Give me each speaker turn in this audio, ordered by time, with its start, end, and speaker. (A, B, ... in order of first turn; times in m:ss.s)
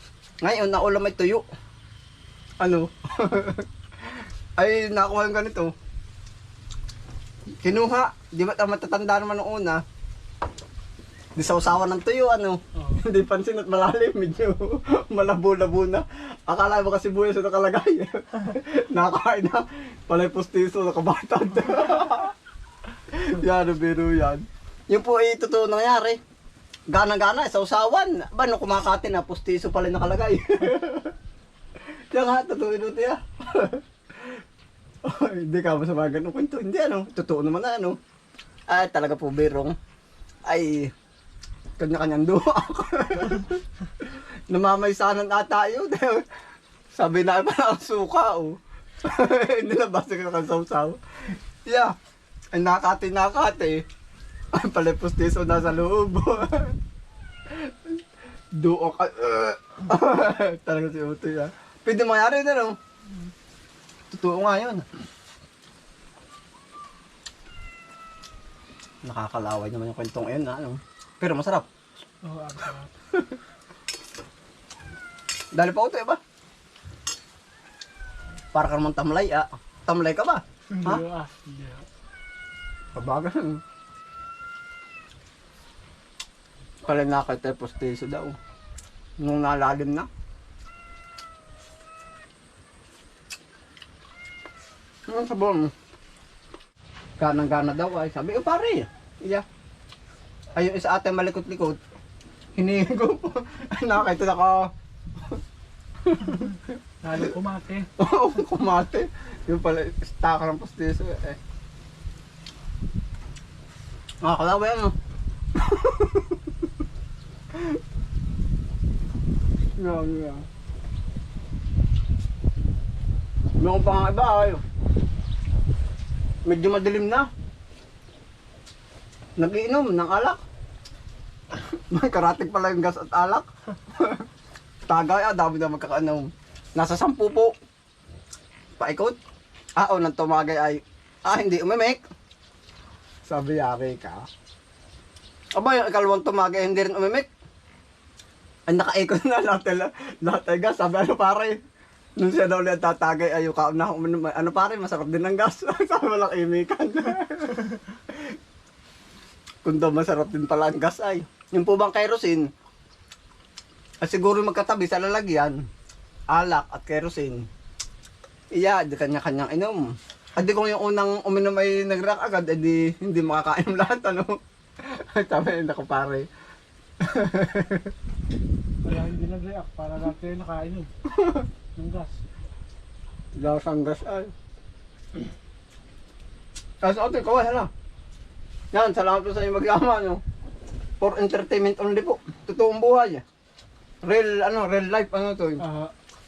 0:00.4-0:01.4 A
0:02.6-0:05.7 A
0:07.6-0:09.8 A
0:11.4-0:22.4 A
0:12.8-0:13.0 B
0:23.1-0:26.2 A
0:26.9-0:31.1 A
0:32.1-0:33.8 A
0:35.0-0:38.0 A
0:38.7-0:39.8 A
0:40.5-0:40.9 A
0:41.8-0:46.2 A
0:47.0-0:51.9 A
0:52.5-0:53.8 A
0:54.5-0:56.8 A
0:57.5-0:58.0 A
0:58.6-1:02.8 A
1:04.1-1:04.9 A
1:09.0-1:11.7 A
1:12.2-1:12.9 B
1:15.6-1:16.2 A
1:18.5-1:21.0 A
1:20.7-1:21.9 B
1:23.0-1:23.6 A
1:26.8-1:28.4 A
1:29.2-1:30.1 A
1:35.1-1:35.7 A
1:37.2-1:39.4 A
1:40.6-1:41.8 A
1:42.6-1:44.7 A
1:46.0-1:46.7 A
1:47.0-1:47.9 B
1:48.0-1:51.4 A
1:54.2-1:54.9 A
1:55.6-1:56.4 A
1:59.8-2:00.4 A
2:03.6-2:04.6 A
2:06.5-2:07.3 A
2:09.4-2:10.4 A
2:11.5-2:14.2 A
2:14.9-2:17.5 A
2:18.8-2:19.2 A
2:19.8-2:22.0 A
2:23.2-2:24.3 A
2:25.6-2:27.3 A
2:28.7-2:31.6 A
2:32.2-2:38.0 A
2:39.6-2:42.5 A
2:44.0-2:45.6 A
2:46.3-2:47.5 A
2:48.6-2:49.8 A
2:50.4-2:56.3 A
2:57.0-2:57.9 A
2:58.8-3:00.9 B
3:01.1-3:01.5 A
3:01.8-3:02.2 B
3:03.4-3:04.3 A
3:06.8-3:07.7 A
3:08.7-3:10.2 A
3:11.0-3:13.2 A
3:14.0-3:15.6 A
3:15.6-3:15.9 B